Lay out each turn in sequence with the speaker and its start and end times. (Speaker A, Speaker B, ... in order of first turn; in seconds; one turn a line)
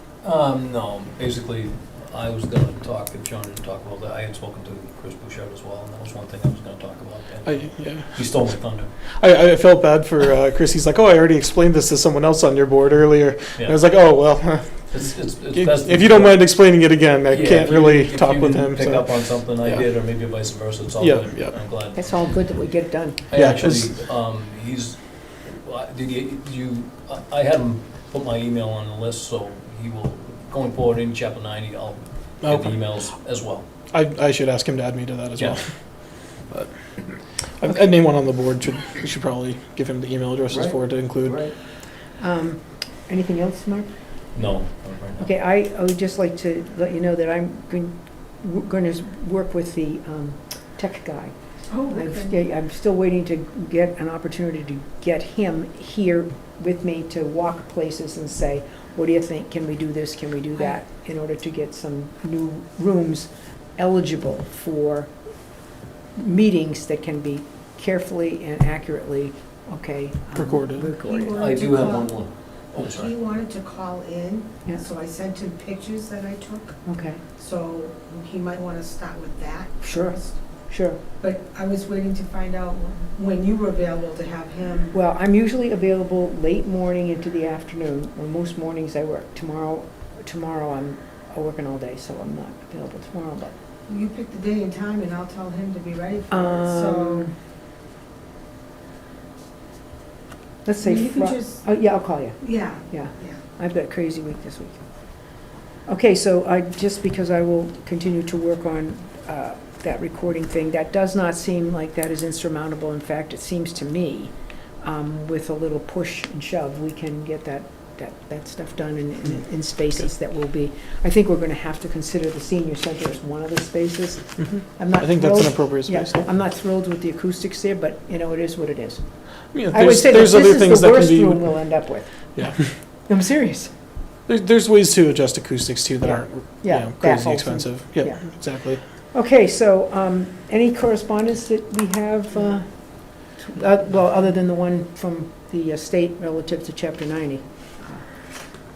Speaker A: 0.2-8.9
Speaker B: 7.5-8.4
Speaker B: 9.2-19.9
Speaker A: 14.9-22.3
Speaker B: 21.0-21.6
Speaker C: 21.9-23.2
Speaker A: 23.3-33.7
Speaker B: 23.3-23.9
Speaker B: 32.4-32.8
Speaker B: 33.9-36.7
Speaker B: 37.6-41.5
Speaker A: 40.5-41.5
Speaker C: 42.2-43.9
Speaker A: 44.3-45.3
Speaker C: 45.2-51.3
Speaker D: 51.7-52.3
Speaker C: 51.9-65.1
Speaker C: 66.2-71.3
Speaker B: 70.3-70.9
Speaker D: 71.0-72.2
Speaker A: 71.3-73.2
Speaker D: 72.8-76.8
Speaker C: 76.9-77.2
Speaker D: 77.4-80.3
Speaker C: 79.8-81.0
Speaker D: 81.2-84.9
Speaker C: 84.9-93.5
Speaker D: 93.9-97.3
Speaker C: 96.3-97.3
Speaker C: 100.7-104.8
Speaker D: 100.8-101.7
Speaker D: 102.4-103.4
Speaker C: 105.9-129.0
Speaker B: 124.4-126.3
Speaker B: 129.5-131.6
Speaker C: 129.7-132.6
Speaker B: 132.3-132.7
Speaker C: 133.1-133.7
Speaker B: 134.3-138.8
Speaker C: 136.0-138.2
Speaker C: 139.1-142.7
Speaker C: 143.4-148.1